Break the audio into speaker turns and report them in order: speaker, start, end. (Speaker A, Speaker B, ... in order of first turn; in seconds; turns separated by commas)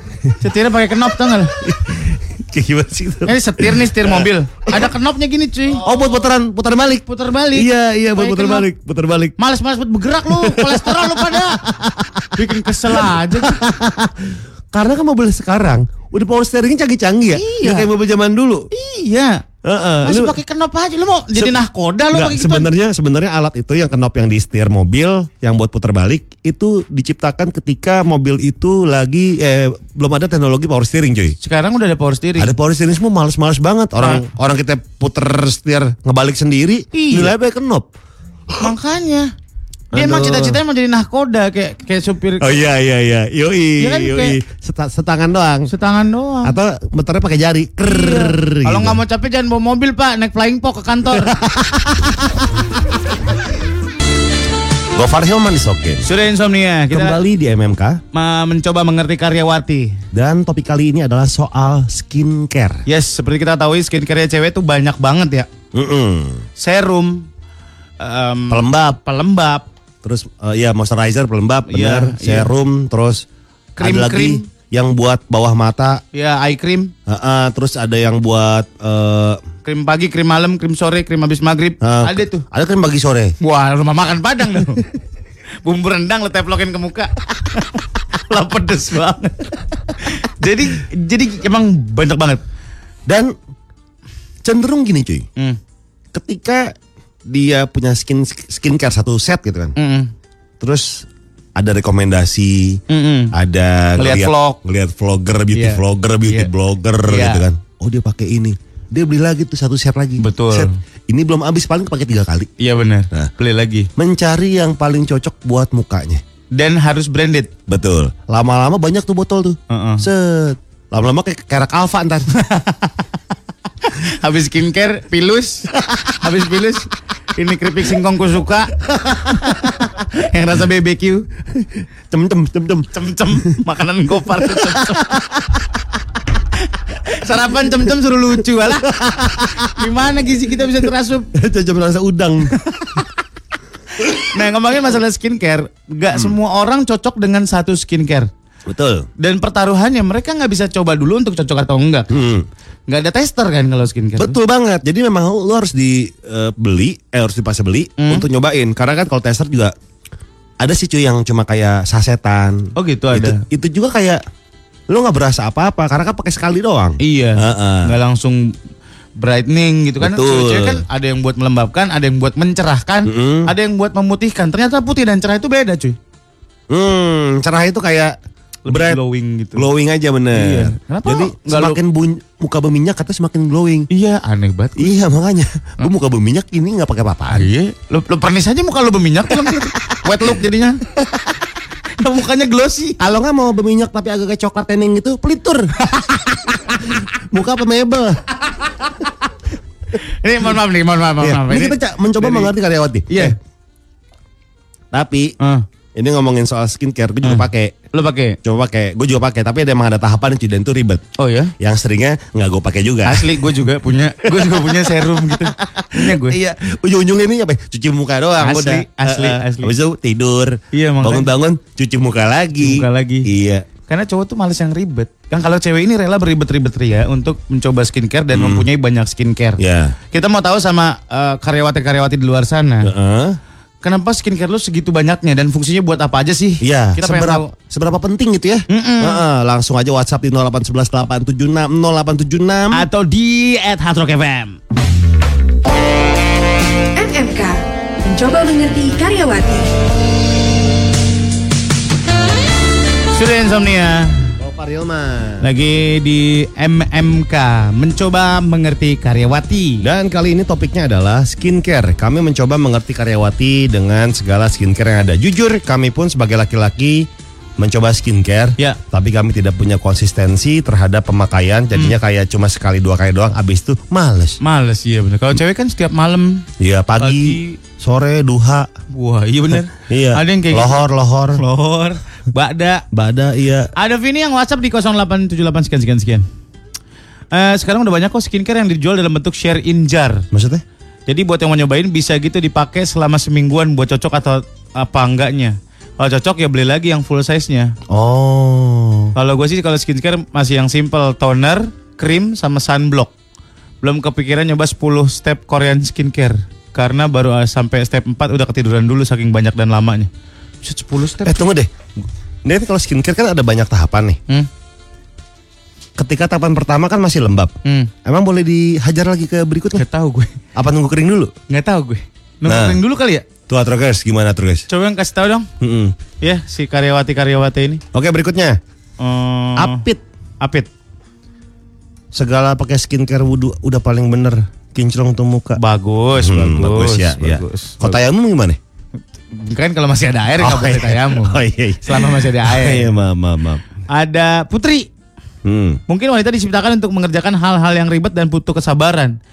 Speaker A: 0.4-1.6, Speaker B: 1.6-4.8, Speaker A: 3.3-5.8, Speaker B: 5.8-9.3, Speaker A: 7.1-8.7, Speaker A: 9.4-11.6, Speaker B: 10.3-18.7, Speaker A: 12.3-13.6, Speaker A: 17.4-17.9, Speaker A: 18.7-19.4, Speaker B: 19.6-20.4, Speaker A: 20.0-22.7, Speaker B: 21.4-21.6, Speaker B: 22.1-31.4, Speaker A: 31.4-32.5, Speaker B: 32.4-37.9, Speaker A: 36.9-37.3, Speaker A: 38.6-39.3, Speaker B: 39.9-40.6, Speaker A: 39.9-42.6, Speaker B: 42.4-45.7, Speaker A: 43.8-44.4, Speaker A: 45.7-46.6, Speaker B: 46.4-49.0, Speaker A: 47.8-51.3, Speaker B: 51.1-52.5, Speaker B: 54.9-56.0, Speaker A: 56.0-57.2, Speaker B: 56.9-58.0, Speaker A: 58.1-60.0, Speaker B: 60.1-62.8, Speaker A: 62.9-65.5, Speaker B: 65.7-66.5, Speaker A: 66.6-67.3, Speaker A: 68.0-69.7, Speaker B: 68.5-69.0, Speaker B: 70.0-73.2, Speaker A: 71.7-72.5, Speaker A: 73.8-74.4, Speaker B: 73.8-76.0, Speaker A: 76.1-76.9, Speaker B: 77.1-79.4, Speaker A: 79.6-82.5, Speaker B: 81.8-83.3, Speaker A: 83.4-84.9, Speaker A: 85.6-92.4, Speaker B: 93.1-93.3, Speaker B: 94.4-95.3, Speaker B: 96.1-96.8, Speaker B: 97.3-99.7, Speaker A: 99.8-100.1, Speaker B: 100.6-102.8, Speaker A: 102.9-103.3, Speaker B: 103.3-112.5, Speaker A: 104.0-104.6, Speaker A: 105.5-106.5, Speaker A: 107.0-107.4, Speaker A: 110.2-110.7, Speaker A: 112.6-113.9, Speaker B: 114.0-116.2, Speaker A: 116.5-117.5, Speaker B: 117.7-122.3, Speaker A: 119.7-120.0, Speaker A: 122.3-123.0, Speaker A: 123.8-128.7, Speaker B: 128.9-129.8, Speaker A: 129.4-131.3, Speaker B: 131.6-133.6, Speaker A: 132.9-135.2, Speaker B: 134.5-135.6, Speaker A: 136.8-138.9, Speaker B: 138.8-139.9, Speaker A: 139.7-141.3, Speaker B: 141.3-142.6, Speaker A: 142.7-143.1, Speaker A: 144.0-148.3, Speaker B: 148.7-149.1, Speaker A: 149.2-152.1, Speaker B: 152.1-152.5, Speaker A: 152.9-154.4, Speaker B: 154.2-159.7, Speaker A: 158.0-158.3, Speaker B: 160.6-164.2, Speaker A: 162.8-163.4, Speaker B: 164.9-167.9, Speaker A: 167.0-168.5, Speaker A: 169.2-176.0, Speaker B: 170.0-170.8, Speaker B: 173.1-173.5, Speaker B: 176.7-178.2, Speaker A: 178.7-179.7, Speaker B: 178.7-179.0, Speaker B: 179.6-183.9, Speaker A: 180.3-181.8, Speaker A: 183.9-184.9, Speaker B: 184.8-187.5, Speaker A: 187.3-190.8, Speaker A: 192.0-193.0, Speaker B: 193.0-195.7, Speaker A: 195.9-196.4, Speaker B: 196.7-198.2, Speaker A: 200.0-202.5, Speaker B: 201.2-203.4, Speaker A: 203.1-203.3, Speaker B: 204.9-205.3, Speaker A: 205.4-205.7, Speaker B: 205.9-207.8, Speaker A: 207.2-208.4, Speaker B: 208.4-211.1, Speaker A: 211.2-211.5, Speaker B: 211.6-213.4, Speaker A: 213.1-216.4, Speaker B: 214.3-223.7, Speaker A: 218.4-219.7, Speaker A: 220.7-221.3, Speaker A: 222.6-223.3, Speaker A: 223.9-229.6, Speaker B: 228.3-228.7, Speaker B: 229.6-230.0, Speaker A: 230.1-232.9, Speaker B: 232.8-233.4, Speaker A: 233.8-237.5, Speaker B: 236.6-242.8, Speaker A: 238.7-239.2, Speaker A: 242.7-244.6, Speaker C: 247.0-249.7, Speaker A: 253.1-254.3, Speaker B: 254.4-255.4, Speaker A: 255.4-259.9, Speaker B: 259.8-274.4, Speaker A: 274.4-276.5, Speaker B: 276.6-278.7, Speaker A: 277.0-277.6, Speaker A: 278.9-280.8, Speaker B: 279.8-281.4, Speaker A: 281.4-282.8, Speaker B: 282.9-283.7, Speaker A: 283.8-286.2, Speaker A: 287.3-290.3, Speaker B: 290.3-290.6, Speaker A: 291.1-297.8, Speaker B: 297.9-299.1, Speaker A: 299.1-303.1, Speaker A: 303.8-310.1, Speaker A: 310.6-311.4, Speaker B: 311.2-311.7, Speaker B: 312.4-314.2, Speaker B: 316.0-319.8, Speaker A: 317.6-317.9, Speaker A: 319.8-320.4, Speaker B: 320.6-321.3, Speaker A: 321.5-323.3, Speaker B: 322.4-322.8, Speaker B: 323.5-324.7, Speaker A: 324.7-325.5, Speaker B: 325.6-326.0, Speaker A: 326.2-327.8, Speaker B: 327.9-328.6, Speaker A: 329.0-329.9, Speaker B: 329.6-330.0, Speaker A: 330.4-330.7, Speaker B: 332.1-335.6, Speaker A: 335.6-338.0, Speaker B: 336.2-338.6, Speaker A: 339.3-342.9, Speaker B: 340.4-343.6, Speaker A: 343.9-344.9, Speaker B: 345.4-345.8, Speaker A: 345.9-349.2